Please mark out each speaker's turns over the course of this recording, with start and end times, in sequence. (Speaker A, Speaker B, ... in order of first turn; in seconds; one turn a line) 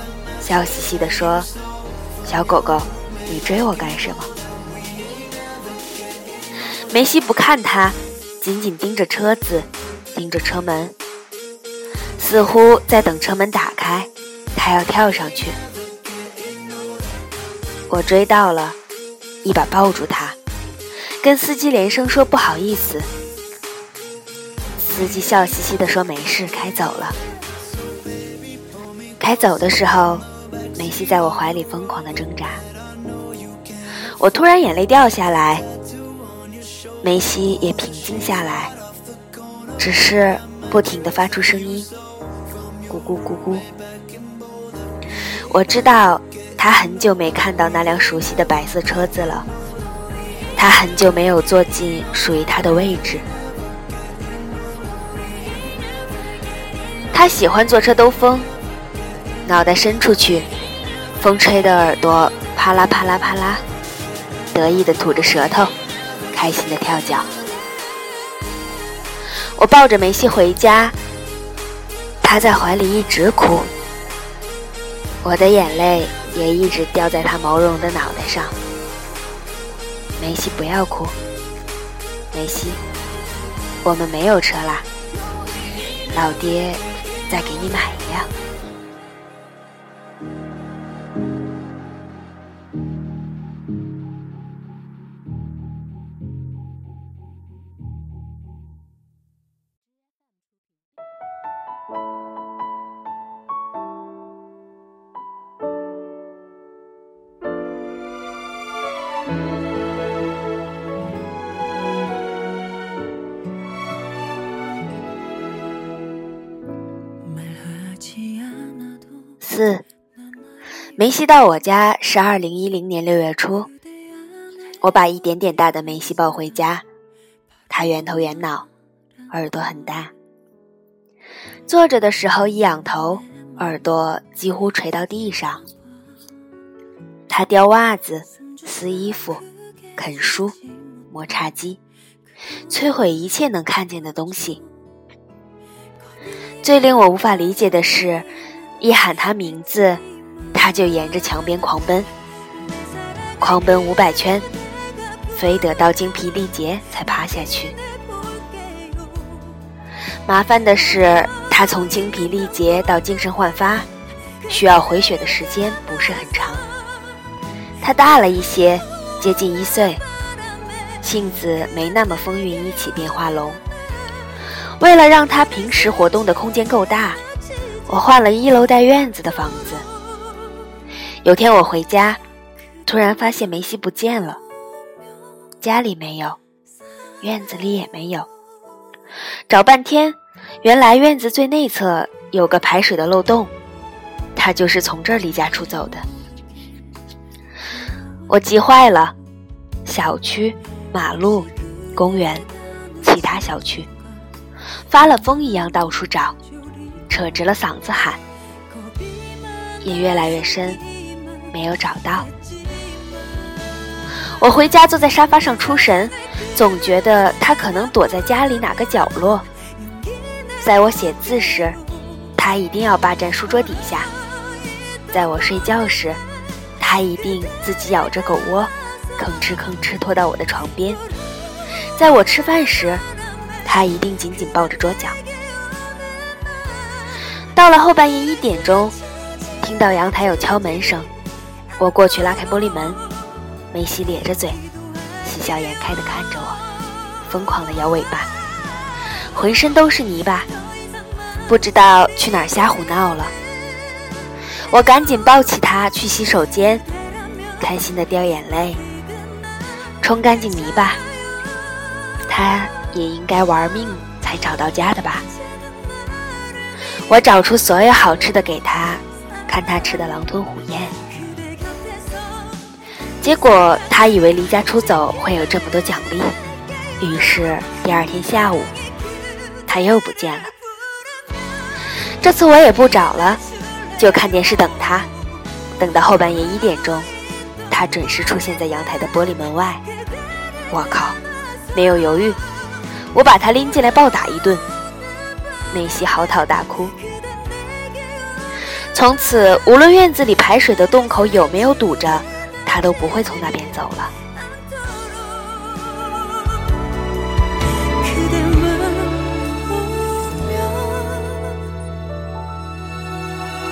Speaker A: 0.4-1.5
Speaker A: 2.2-4.3
Speaker A: 6.9-10.9
Speaker A: 12.2-15.6
Speaker A: 17.9-18.8
Speaker A: 19.4-20.4
Speaker A: 21.2-23.1
Speaker A: 24.8-27.2
Speaker A: 29.2-30.2
Speaker A: 30.8-32.6
Speaker A: 34.2-35.6
Speaker A: 37.0-38.7
Speaker A: 39.8-41.9
Speaker A: 42.9-43.7
Speaker A: 45.5-49.5
Speaker A: 50.6-53.2
Speaker A: 57.1-58.5
Speaker A: 59.5-60.5
Speaker A: 61.2-63.6
Speaker A: 64.5-65.7
Speaker A: 66.3-67.3
Speaker A: 69.6-71.0
Speaker A: 72.2-73.7
Speaker A: 75.2-78.6
Speaker A: 80.2-81.2
Speaker A: 82.3-82.8
Speaker A: 83.8-84.9
Speaker A: 86.1-88.3
Speaker A: 119.4-119.8
Speaker A: 121.0-123.7
Speaker A: 124.8-126.8
Speaker A: 127.7-128.7
Speaker A: 129.3-130.1
Speaker A: 131.7-135.7
Speaker A: 137.3-139.4
Speaker A: 140.0-140.6
Speaker A: 141.1-141.8
Speaker A: 142.7-144.6
Speaker A: 146.6-148.3
Speaker A: 148.8-150.0
Speaker A: 150.5-152.1
Speaker A: 153.4-154.5
Speaker A: 155.3-157.8
Speaker A: 160.3-163.9
Speaker A: 164.5-166.7
Speaker A: 167.8-170.0
Speaker A: 171.0-173.6
Speaker A: 174.8-177.2
Speaker A: 177.9-179.9
Speaker A: 181.2-182.2
Speaker A: 182.9-184.4
Speaker A: 185.6-186.4
Speaker A: 187.2-188.3
Speaker A: 189.5-193.5
Speaker A: 194.4-196.1
Speaker A: 198.3-199.2
Speaker A: 199.8-202.5
Speaker A: 203.0-203.9
Speaker A: 204.9-206.4
Speaker A: 207.1-208.2
Speaker A: 209.8-210.8
Speaker A: 211.5-212.3
Speaker A: 214.4-219.5
Speaker A: 220.6-221.8
Speaker A: 222.4-224.1
Speaker A: 225.1-226.2
Speaker A: 226.8-231.0
Speaker A: 231.9-233.0
Speaker A: 233.7-235.2
Speaker A: 237.6-238.9
Speaker A: 239.6-241.1
Speaker A: 241.8-243.0
Speaker A: 243.7-244.6
Speaker A: 245.2-246.6
Speaker A: 247.3-248.3
Speaker A: 249.3-250.5
Speaker A: 251.5-253.3
Speaker A: 254.7-256.8
Speaker A: 257.6-258.8
Speaker A: 260.0-261.0
Speaker A: 262.3-265.3
Speaker A: 267.1-271.0
Speaker A: 273.2-276.4
Speaker A: 277.0-278.7
Speaker A: 279.7-280.5
Speaker A: 282.2-283.4
Speaker A: 284.0-285.1
Speaker A: 285.8-287.1
Speaker A: 287.7-289.8
Speaker A: 290.7-291.2
Speaker A: 291.7-292.4
Speaker A: 293.1-294.6
Speaker A: 295.7-297.0
Speaker A: 298.9-304.1
Speaker A: 308.3-309.1